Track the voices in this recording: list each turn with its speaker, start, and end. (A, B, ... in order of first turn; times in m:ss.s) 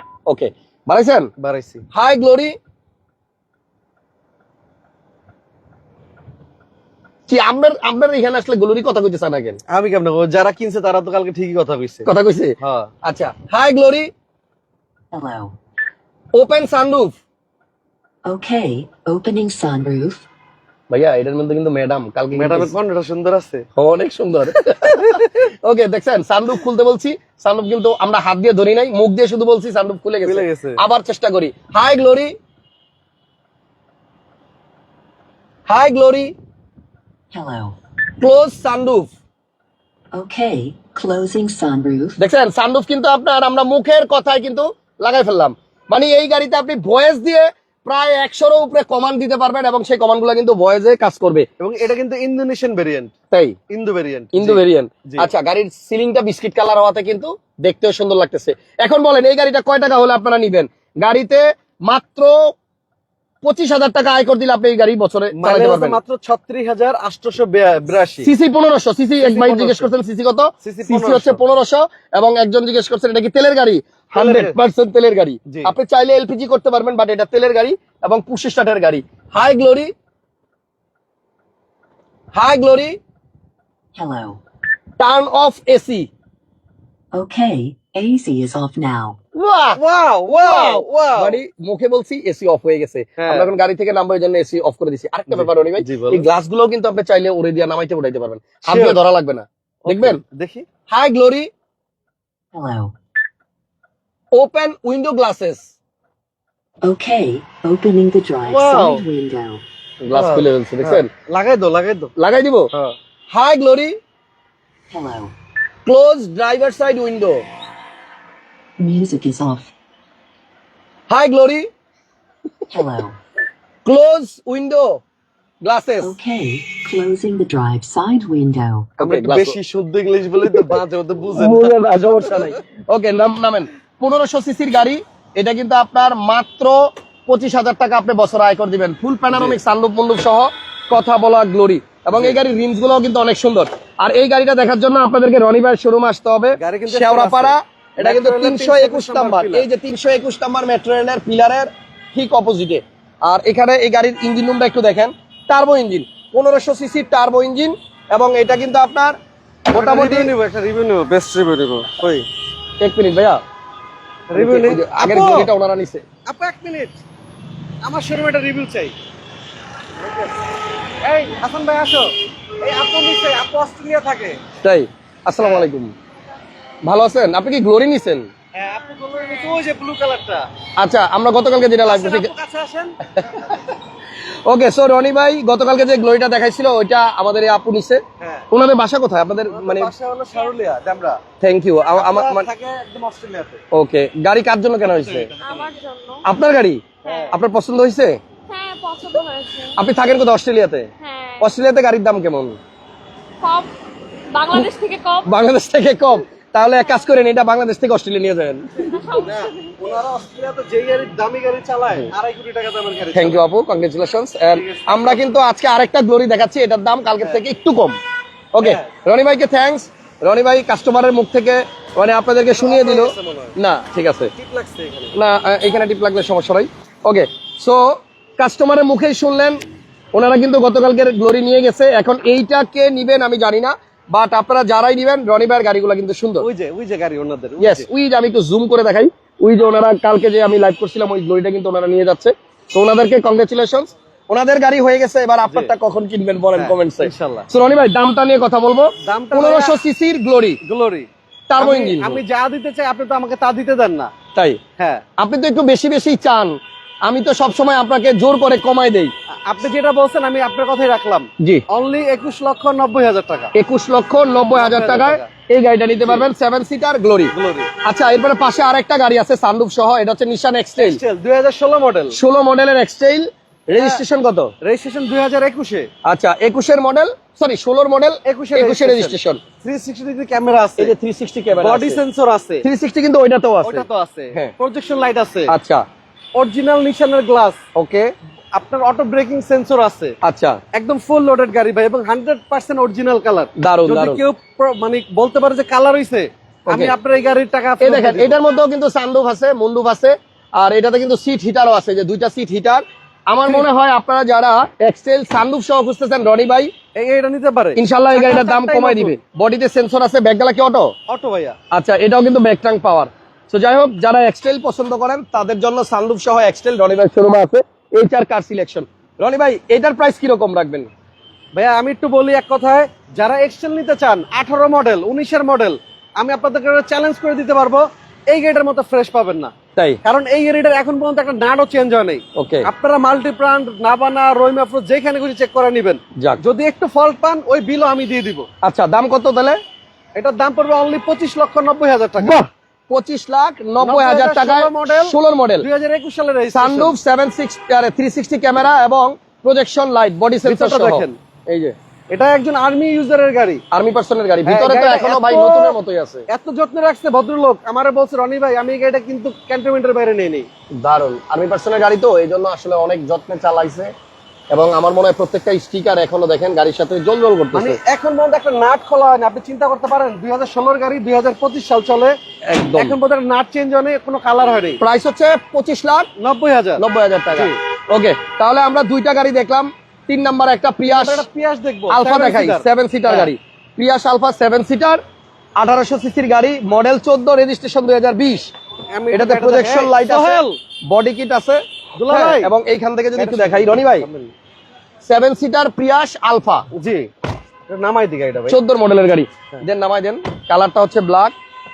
0:00.3-0:01.3 A
0:01.4-0:01.8 B
0:01.9-0:02.5 A
0:07.3-0:09.6 A
0:09.7-0:12.1 B
0:12.0-0:14.1 A
0:12.6-0:12.9 B
0:15.1-0:15.5 C
0:16.3-0:17.2 A
0:18.2-0:20.2 C
0:20.9-0:22.7 A
0:22.4-0:23.7 B
0:23.8-0:32.3 A
0:30.2-0:30.8 B
0:35.7-0:36.3 A
0:37.3-0:37.8 C
0:38.2-0:39.1 A
0:40.1-0:42.2 C
0:42.2-0:51.5 A
0:51.6-0:53.1 B
0:53.3-0:53.6 A
0:53.7-0:55.3 B
0:54.3-1:02.4 A
1:03.4-1:06.0 A
1:05.4-1:08.3 B
1:08.2-1:19.9 A
1:09.2-1:09.9 B
1:10.6-1:11.4 B
1:14.1-1:14.6 B
1:22.3-1:23.0 A
1:24.0-1:24.4 C
1:25.0-1:26.1 A
1:27.1-1:29.2 C
1:29.3-1:29.8 A
1:29.8-1:31.4 B
1:30.3-1:40.2 A
1:33.2-1:33.5 B
1:35.3-1:36.3 B
1:38.7-1:39.0 B
1:39.8-1:40.6 B
1:40.9-1:41.5 A
1:42.5-1:42.9 C
1:44.3-1:45.7 A
1:46.8-1:49.6 C
1:48.5-1:49.0 B
1:50.0-1:51.1 A
1:50.1-1:52.1 B
1:52.2-1:52.7 A
1:53.3-1:54.0 A
1:54.9-1:55.3 C
1:55.8-1:57.4 A
1:58.8-1:59.7 C
2:01.1-2:01.7 A
2:02.7-2:03.2 C
2:03.8-2:05.0 A
2:05.6-2:06.1 A
2:06.0-2:08.9 C
2:09.0-2:09.6 A
2:09.0-2:11.7 B
2:10.4-2:10.8 A
2:11.4-2:39.2 A
2:19.3-2:19.6 B
2:26.6-2:29.7 B
2:39.7-2:40.3 A
2:39.7-2:42.2 B
2:42.8-2:43.4 A
2:44.3-2:45.5 B
2:44.4-2:46.0 A
2:46.3-2:47.0 B
2:47.8-2:48.9 B
2:50.0-2:50.4 B
2:51.0-2:54.4 B
2:54.6-2:55.9 A
2:55.4-2:55.7 B
2:56.8-2:58.3 A
2:58.5-3:00.5 B
3:00.8-3:02.3 A
3:01.8-3:03.0 B
3:03.1-3:03.7 A
3:04.4-3:09.9 A
3:08.2-3:08.5 B
3:09.5-3:11.2 B
3:11.4-3:12.5 A
3:12.0-3:13.6 B
3:13.7-3:15.3 A
3:14.8-3:15.7 B
3:15.4-3:16.2 D
3:16.2-3:18.2 A
3:17.0-3:17.4 B
3:17.0-3:17.3 D
3:18.5-3:19.8 D
3:19.8-3:20.9 A
3:21.0-3:21.5 D
3:21.4-3:22.6 A
3:23.4-3:23.7 D
3:24.3-3:25.4 D
3:25.2-3:28.9 A
3:28.9-3:29.5 D
3:29.2-3:33.4 B
3:33.1-3:38.0 A
3:34.6-3:35.2 B
3:38.5-3:44.3 A
3:38.6-3:38.9 B
3:42.6-3:43.5 B
3:44.3-3:45.2 B
3:45.1-3:49.6 A
3:50.1-3:56.5 A
3:56.4-3:57.9 B
3:57.6-4:10.6 A
4:05.5-4:05.7 B
4:06.5-4:07.5 B
4:09.0-4:09.7 B
4:10.6-4:14.1 B
4:11.5-4:12.2 A
4:14.3-4:14.6 A
4:14.8-4:15.0 B
4:15.2-4:19.1 A
4:19.4-4:23.5 B
4:23.5-4:27.3 A
4:24.5-4:25.3 B
4:27.3-4:27.7 B
4:27.8-4:31.0 A
4:30.8-4:32.2 B
4:32.1-4:34.5 A
4:33.8-4:34.0 B
4:34.6-4:35.9 B
4:36.0-4:39.4 A
4:38.2-4:40.9 B
4:40.8-4:42.0 A
4:41.5-4:42.6 B
4:42.6-4:44.5 A
4:43.6-4:45.5 B
4:45.5-4:45.8 A
4:46.4-4:47.6 B
4:47.8-4:48.1 A
4:48.5-4:50.1 B
4:50.2-4:50.6 A
4:50.7-4:58.4 B
4:53.6-4:54.2 A
4:56.7-4:56.9 A
4:57.8-5:06.7 A
5:07.0-5:09.2 B
5:07.8-5:10.9 A
5:11.1-5:11.6 B
5:11.7-5:20.9 A
5:21.5-5:38.5 B
5:29.8-5:30.0 A
5:32.4-5:32.7 A
5:38.6-5:39.6 A
5:40.2-5:42.4 B
5:42.2-5:45.6 A
5:43.8-5:46.9 B
5:46.5-5:51.7 A
5:50.4-5:51.2 B
5:52.1-5:53.6 B
5:53.7-5:56.2 A
5:54.4-5:55.8 B
5:56.3-6:00.5 B
6:00.8-6:03.9 A
6:04.5-6:07.8 A
6:07.5-6:12.2 B
6:12.5-6:13.0 A
6:12.8-6:14.8 B
6:14.8-6:16.1 A
6:16.2-6:17.6 B
6:16.8-6:21.2 A
6:20.8-6:23.3 B
6:21.9-6:25.0 A
6:25.6-6:28.5 A
6:28.9-6:30.6 B
6:29.1-6:34.1 A
6:32.0-6:32.5 B
6:33.2-6:34.3 B
6:35.0-6:36.6 A
6:36.7-6:37.1 B
6:37.7-6:38.6 B
6:38.5-6:41.3 A